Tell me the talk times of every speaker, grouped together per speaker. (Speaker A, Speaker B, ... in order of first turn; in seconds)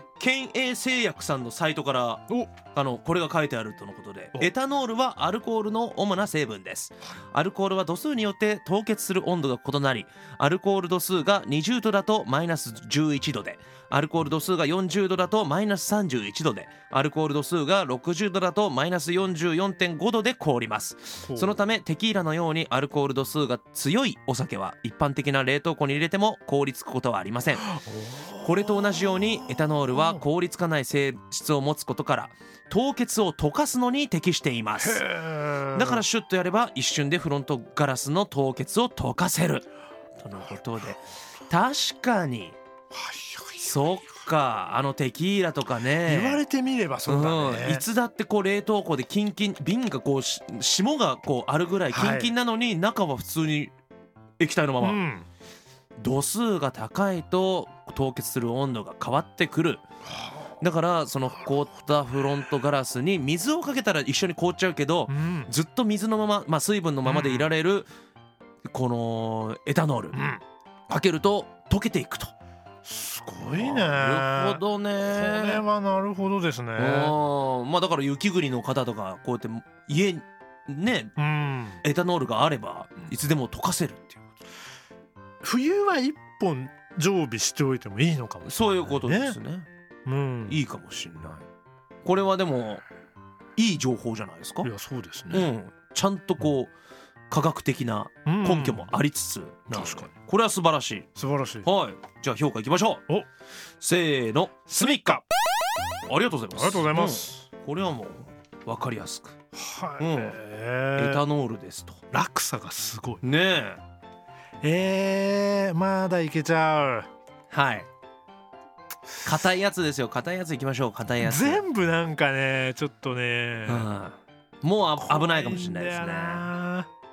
Speaker A: 0.2-27.8, 28.4-35.1, 35.7-39.7, 40.2-42.6, 43.6-46.4, 47.0-53.7, 54.4-55.0, 56.0-59.8, 60.6-67.9, 68.7-70.2, 70.9-72.3, 73.5-75.7, 76.8-81.1, 81.8-84.2, 88.4-89.7, 90.5-91.4, 92.0-92.8, 93.6-94.7, 95.3-96.7, 97.3-101.1, 101.6-103.0, 103.8-105.2, 106.1-109.3, 110.0-110.4, 111.0-112.0, 113.2-113.8, 117.5-117.9, 119.2-121.6, 123.7-126.5
Speaker B: 2.3-2.6, 21.2-21.6, 27.7-30.2, 34.8-36.0, 42.9-43.7, 46.0-47.9, 51.9-52.3, 54.8-55.3, 60.2-60.5, 65.1-65.5, 67.0-67.5, 70.1-70.4, 72.8-77.1, 81.2-81.8, 85.4-89.4, 90.0-90.6, 94.6-95.5, 98.2-98.9, 99.7-100.1, 101.1-101.7, 104.7-105.2, 106.5-107.5, 109.5-111.2, 112.1-113.2, 114.6-117.1, 121.2-123.9, 125.0-126.9